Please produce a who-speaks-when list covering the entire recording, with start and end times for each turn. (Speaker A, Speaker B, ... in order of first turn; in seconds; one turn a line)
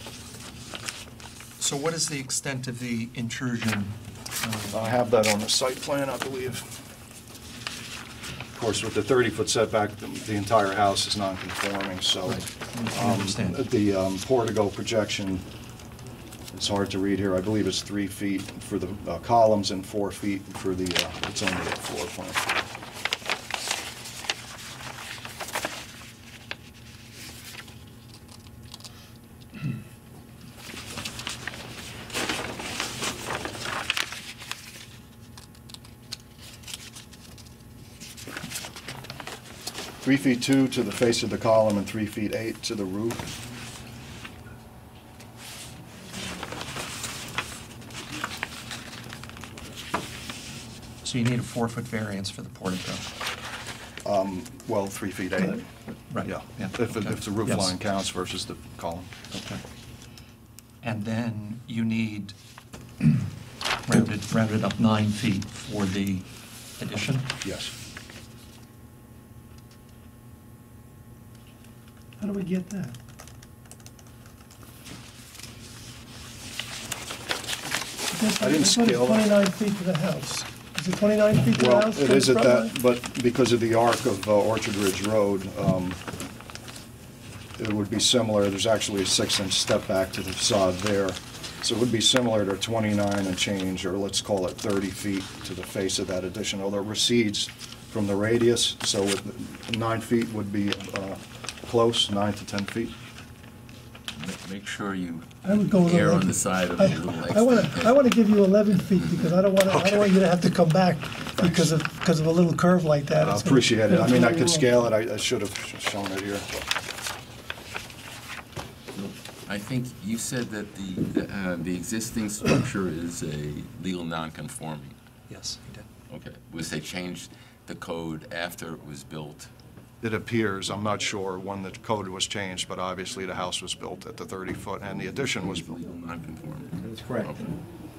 Speaker A: 1.6-4.9
Speaker B: 4.7-6.7
Speaker B: 8.5-15.4
Speaker A: 12.3-13.6
Speaker B: 16.5-22.4
Speaker B: 40.0-43.3
Speaker A: 51.0-53.0
Speaker B: 54.0-55.6
Speaker A: 55.9-57.7
Speaker B: 56.2-59.1
Speaker A: 59.3-59.6
Speaker A: 60.8-62.3
Speaker A: 63.9-66.2
Speaker A: 66.8-67.3
Speaker B: 67.4-67.7
Speaker C: 72.2-72.9
Speaker C: 78.1-82.8
Speaker B: 78.4-79.3
Speaker B: 81.5-86.0
Speaker B: 87.6-102.9
Speaker D: 104.1-108.0
Speaker C: 105.4-114.7
Speaker D: 108.9-109.4
Speaker A: 109.7-110.1
Speaker B: 111.4-111.7
Speaker B: 113.2-116.5
Speaker D: 118.9-124.9
Speaker A: 125.3-125.8
Speaker D: 126.1-129.5
Speaker B: 130.0-135.8
Speaker D: 135.4-137.6